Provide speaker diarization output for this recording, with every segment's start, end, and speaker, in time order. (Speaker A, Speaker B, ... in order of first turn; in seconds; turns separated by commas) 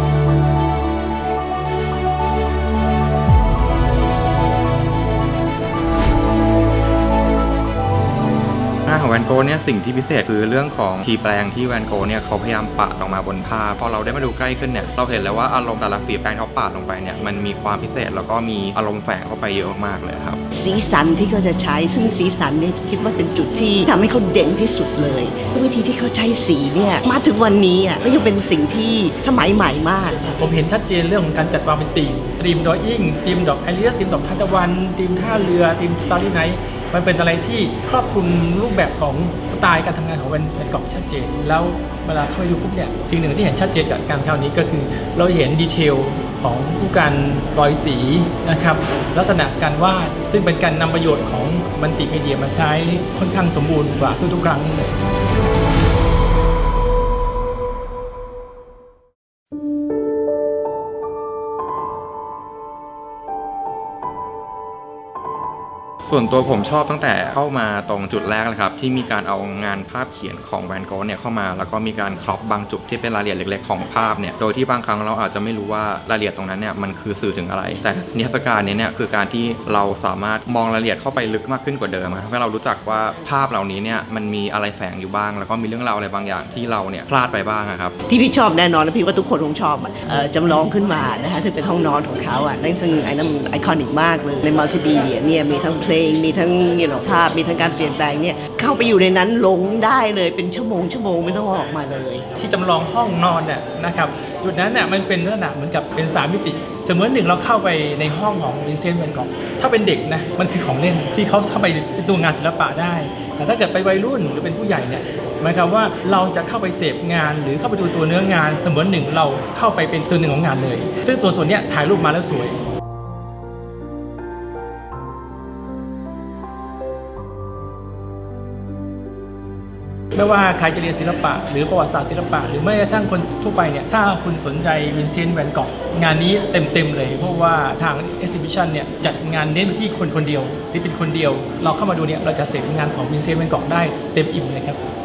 Speaker A: 8.9-20.4, Speaker B: 20.5-30.2, Speaker C: 30.4-55.0, Speaker A: 66.0-88.0, Speaker B: 88.1-102.3, Speaker C: 102.4-122.6, Speaker C: 130.1-144.9